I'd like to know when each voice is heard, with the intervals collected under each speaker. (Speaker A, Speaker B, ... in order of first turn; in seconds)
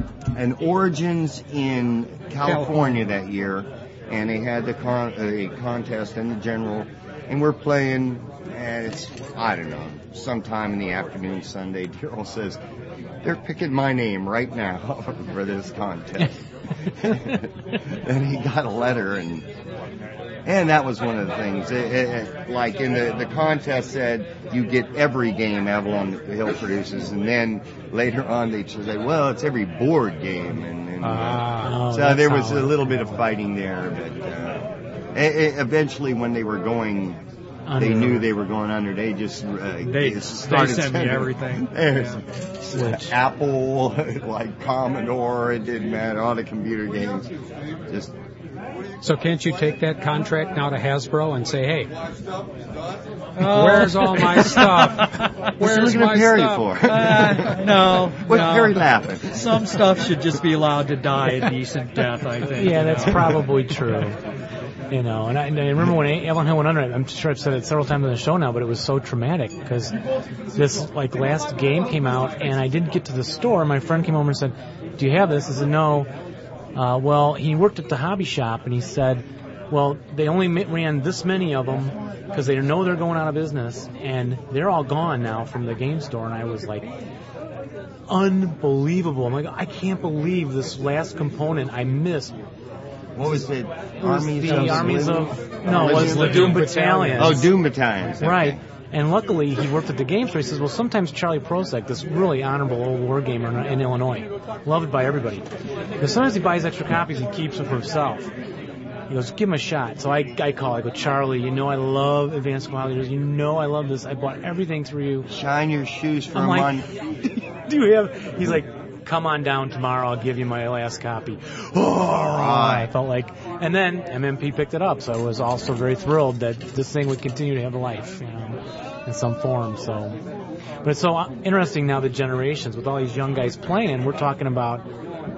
Speaker A: 0.3-12.6, 13.2-16.4, 17.0-19.5, 20.4-37.2, 37.8-47.3, 55.6-59.6, 93.2-98.6, 115.3-116.8, 122.2-122.9
Speaker B: 2.4-3.0, 39.8-42.2, 53.4-55.5, 56.8-63.3
Speaker C: 31.0-31.8, 49.0-51.9, 53.4-56.7, 94.5-94.9, 95.7-97.4
Speaker D: 31.6-33.1, 37.7-38.3, 42.7-43.1, 62.6-64.2, 64.9-70.0, 70.5-76.1, 76.8-86.9, 88.1-92.3, 94.0-97.5, 98.2-105.5, 106.0-108.3, 109.1-115.3, 116.3-130.2, 130.8-134.9